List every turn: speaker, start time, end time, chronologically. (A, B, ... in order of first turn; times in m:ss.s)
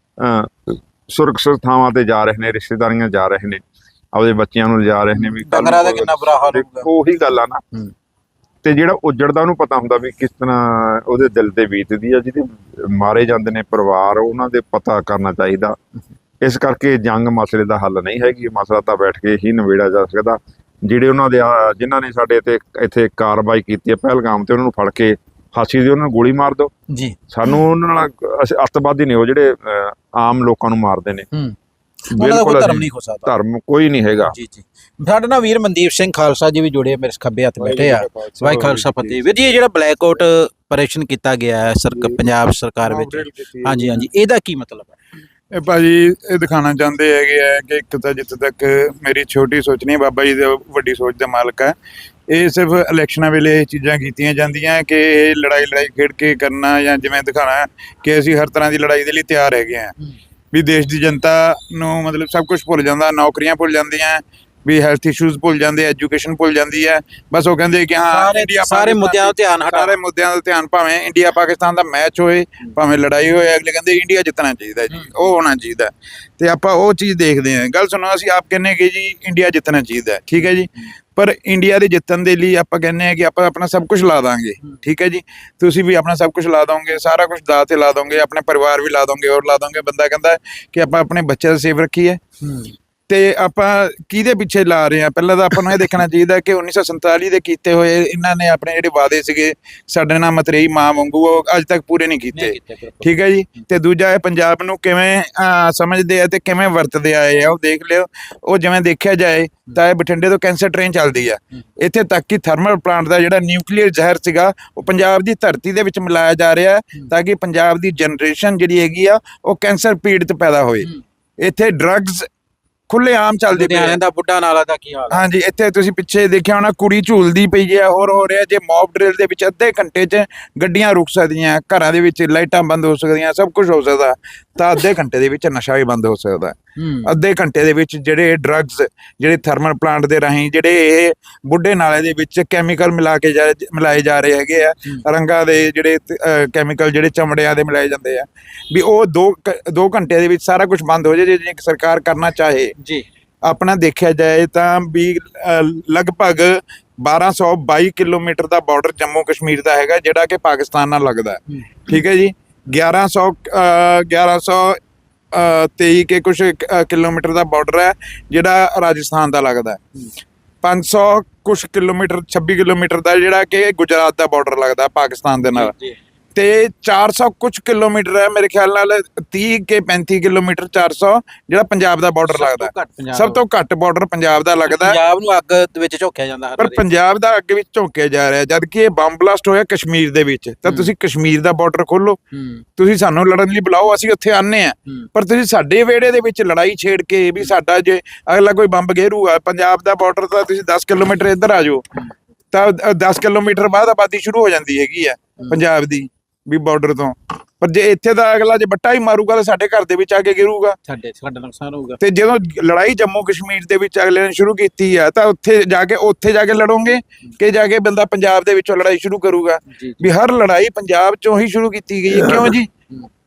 0:00.2-0:07.6 A
0:05.1-0:06.9 B
0:08.6-0:15.8 A
0:16.4-0:26.7 A
0:26.9-0:27.2 B
0:27.3-0:31.3 A
0:32.1-0:33.3 B
0:32.1-0:34.4 A
0:34.3-0:45.0 B
0:37.6-0:39.2 C
0:42.8-0:44.0 C
0:45.5-0:51.7 C
0:52.3-0:59.9 C
1:00.5-1:32.2 C
1:08.1-1:10.0 B
1:32.4-1:32.8 B
1:33.1-2:00.9 C
1:42.3-1:43.1 B
2:01.4-2:02.3 C
2:02.9-2:04.0 C
2:03.5-2:05.2 B
2:05.1-2:32.7 C
2:16.8-2:17.1 B
2:32.8-2:33.0 B
2:33.4-2:44.8 C
2:45.3-2:49.8 C
2:50.6-2:55.7 C
2:55.4-2:56.0 B
2:56.3-3:05.0 C
3:02.3-3:03.4 B
3:04.6-3:06.8 B
3:06.6-3:12.2 C
3:10.6-3:10.9 B
3:12.3-3:12.6 B
3:12.8-3:21.8 C
3:22.5-3:30.8 C
3:30.9-3:32.0 B
3:32.0-3:42.7 C
3:39.7-3:40.1 B